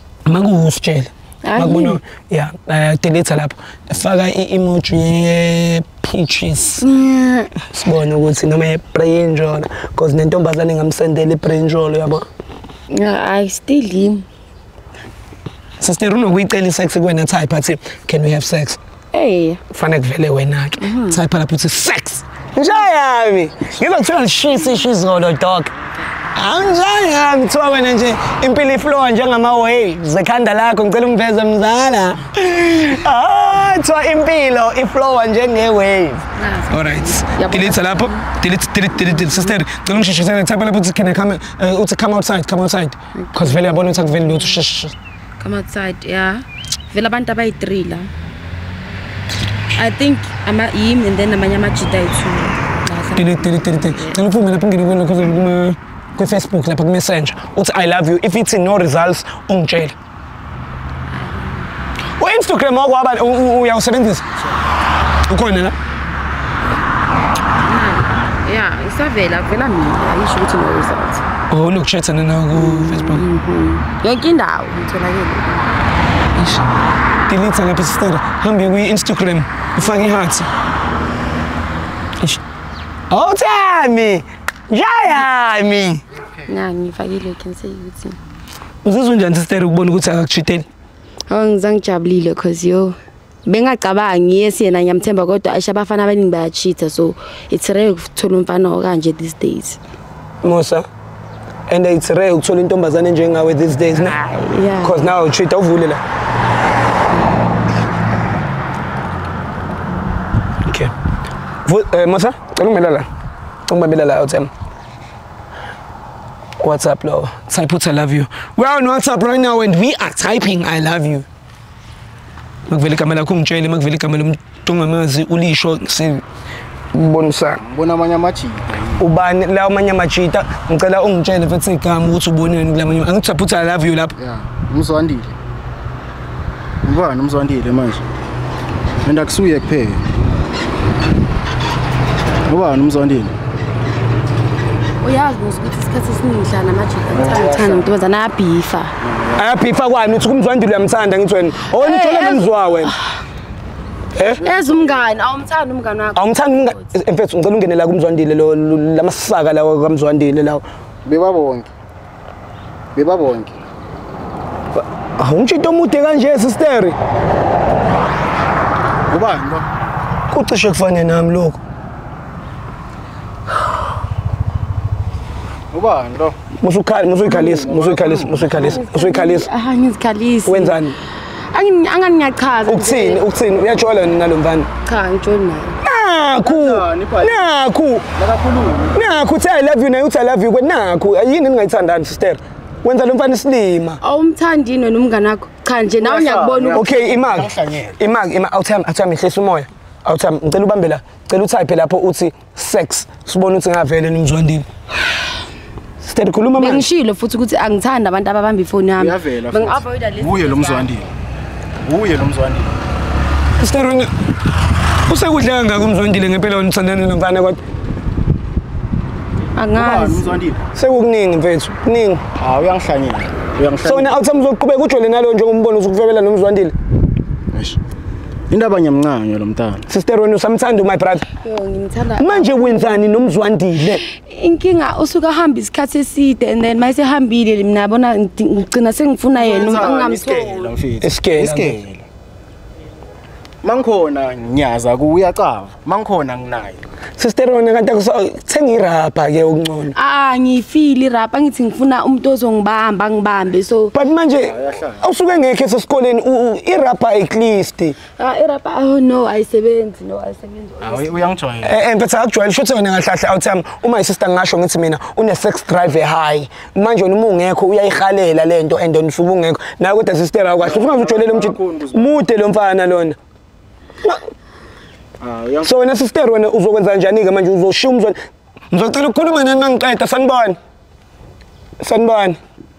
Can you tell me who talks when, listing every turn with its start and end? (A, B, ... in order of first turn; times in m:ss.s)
0:00.2-0:06.8 A
0:01.4-0:02.0 B
0:06.8-0:07.5 B
0:07.7-0:12.3 A
0:12.9-0:14.2 B
0:15.8-0:18.8 A
0:19.1-0:19.6 B
0:19.7-0:25.7 A
0:20.8-0:21.2 B
0:26.3-0:44.9 A
0:36.4-0:38.2 B
0:39.0-0:39.6 B
0:43.1-0:44.6 B
0:45.4-0:48.1 B
0:49.7-0:54.2 B
0:53.2-0:59.9 A
1:01.1-1:01.7 B
1:02.2-1:04.2 A
1:05.3-1:05.7 A
1:07.6-1:11.2 B
1:11.5-1:13.2 A
1:12.5-1:15.8 B
1:16.4-1:16.7 A
1:17.3-1:20.5 A
1:23.1-1:26.0 A
1:26.4-1:28.2 B
1:28.8-1:30.6 A
1:31.3-1:39.8 B
1:40.4-1:40.8 A
1:41.7-1:44.2 A
1:43.9-1:45.1 B
1:44.8-1:46.0 A
1:50.6-1:50.9 A
1:51.6-1:53.0 A
1:53.7-1:54.5 A
1:56.6-2:01.2 A
2:02.7-2:06.2 A
2:06.9-2:07.6 A
2:07.6-2:09.1 C
2:09.0-2:14.1 A
2:14.2-2:15.4 C
2:16.8-2:18.0 C
2:19.0-2:20.0 C
2:22.5-2:23.4 C
2:25.0-2:28.9 B
2:27.1-2:27.9 C
2:29.0-2:29.5 C
2:29.4-2:32.9 A
2:31.6-2:33.0 B
2:34.1-2:34.4 A
2:34.4-2:35.0 C
2:34.4-2:36.3 B
2:36.2-2:40.6 A
2:41.0-2:41.7 C
2:42.9-2:43.6 C
2:44.8-2:46.9 A
2:49.1-2:49.7 C
2:50.3-2:51.6 A
2:55.7-2:56.4 C
2:56.6-2:59.5 A
2:57.2-2:58.8 C
2:58.6-3:00.8 B
3:00.4-3:01.0 A
3:01.4-3:03.2 B
3:02.6-3:04.7 A
3:04.8-3:05.8 B
3:05.8-3:08.1 A
3:06.4-3:07.5 C
3:08.2-3:09.0 C
3:08.9-3:14.0 A
3:14.0-3:16.9 B
3:16.0-3:18.0 C
3:16.7-3:24.6 A
3:26.0-3:26.8 A
3:26.6-3:31.0 B
3:29.0-3:31.1 C
3:31.8-3:32.7 C
3:33.6-3:34.1 A
3:35.1-3:37.6 A
3:39.5-3:40.4 B
3:39.7-3:40.6 C
3:40.7-3:42.2 A
3:42.4-3:44.1 C
3:43.8-3:46.7 A
3:47.5-3:47.8 C
3:48.5-3:49.8 C
3:49.9-3:51.3 A
3:51.4-3:53.0 B
3:52.2-3:54.0 A
3:54.0-4:00.7 B
3:59.3-4:02.0 C
4:01.0-4:01.8 A
4:03.6-4:06.8 C
4:07.2-4:09.9 A
4:09.9-4:13.9 B
4:13.9-4:18.0 A
4:14.4-4:15.0 C
4:18.2-4:21.3 B
4:20.8-4:21.8 C
4:21.6-4:33.2 A
4:30.6-4:32.2 C
4:35.2-4:35.7 C
4:35.6-4:38.2 A
4:38.7-4:40.6 A
4:41.8-4:42.4 A